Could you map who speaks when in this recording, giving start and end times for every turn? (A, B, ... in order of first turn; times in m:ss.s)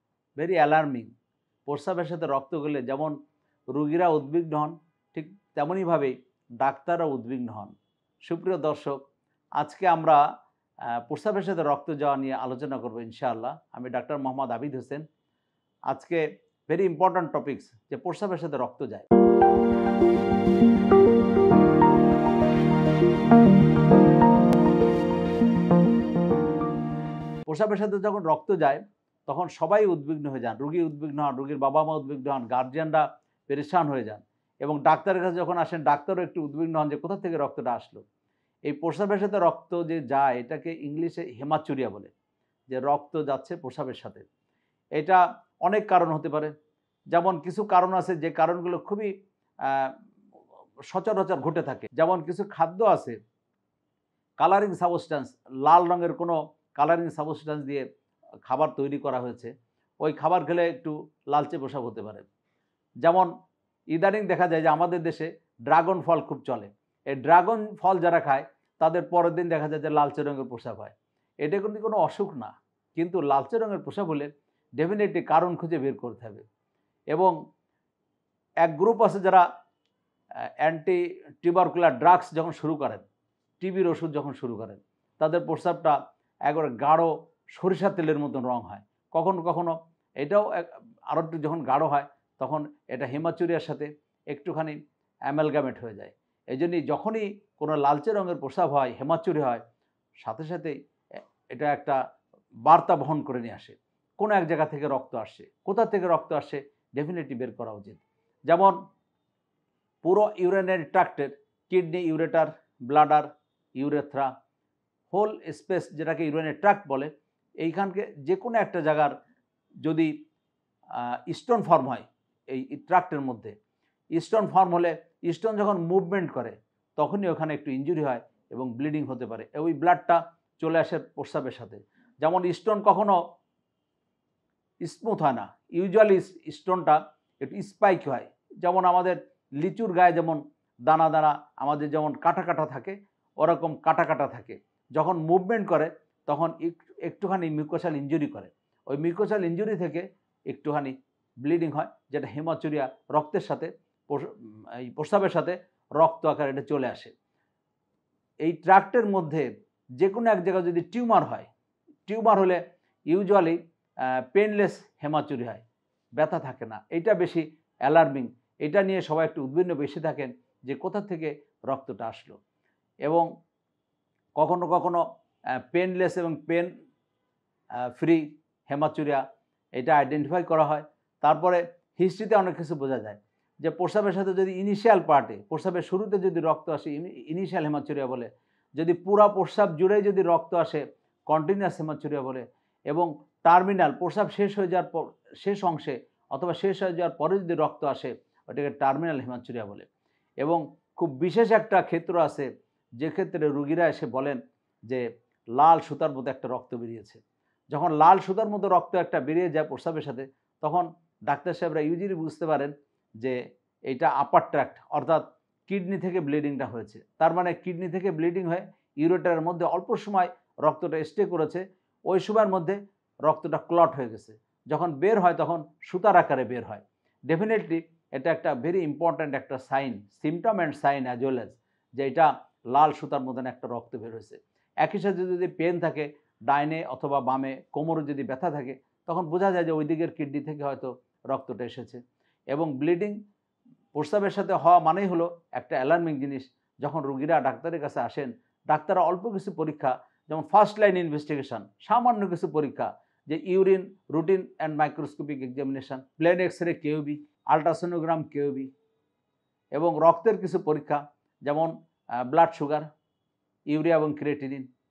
0:00.4-0:01.1 A
0:01.6-0:03.2 A
0:03.7-0:07.7 A
0:08.2-0:09.0 A
0:09.6-0:10.2 A
0:11.1-0:15.0 A
0:15.9-0:19.0 A
0:27.5-0:38.0 A
0:38.7-0:42.1 A
0:42.7-0:44.2 A
0:45.0-0:46.5 A
0:47.1-0:49.1 A
0:49.6-0:50.0 A
0:50.9-0:53.2 A
0:54.4-0:57.8 A
0:58.4-1:02.3 A
1:03.0-1:03.3 A
1:03.9-1:16.4 A
1:17.1-1:17.4 A
1:18.6-1:19.4 A
1:20.6-1:23.0 A
1:23.6-1:34.8 A
1:35.3-1:39.6 A
1:40.2-1:40.7 A
1:41.5-1:42.0 A
1:42.6-1:48.8 A
1:50.0-1:54.3 A
1:55.1-1:59.1 A
1:59.8-2:00.1 A
2:00.9-2:03.5 A
2:04.1-2:13.2 A
2:14.8-2:37.1 A
2:38.4-2:39.5 A
2:40.0-2:41.5 A
2:42.1-2:45.6 A
2:46.2-2:52.4 A
2:54.4-2:55.0 A
2:55.6-2:56.7 A
2:57.9-2:59.2 A
2:59.8-3:19.9 A
3:20.4-3:22.5 A
3:23.0-3:25.0 A
3:25.6-4:02.0 A
4:02.5-4:03.2 A
4:03.9-4:18.7 A
4:19.7-4:21.7 A
4:22.2-4:22.9 A
4:23.7-4:24.7 A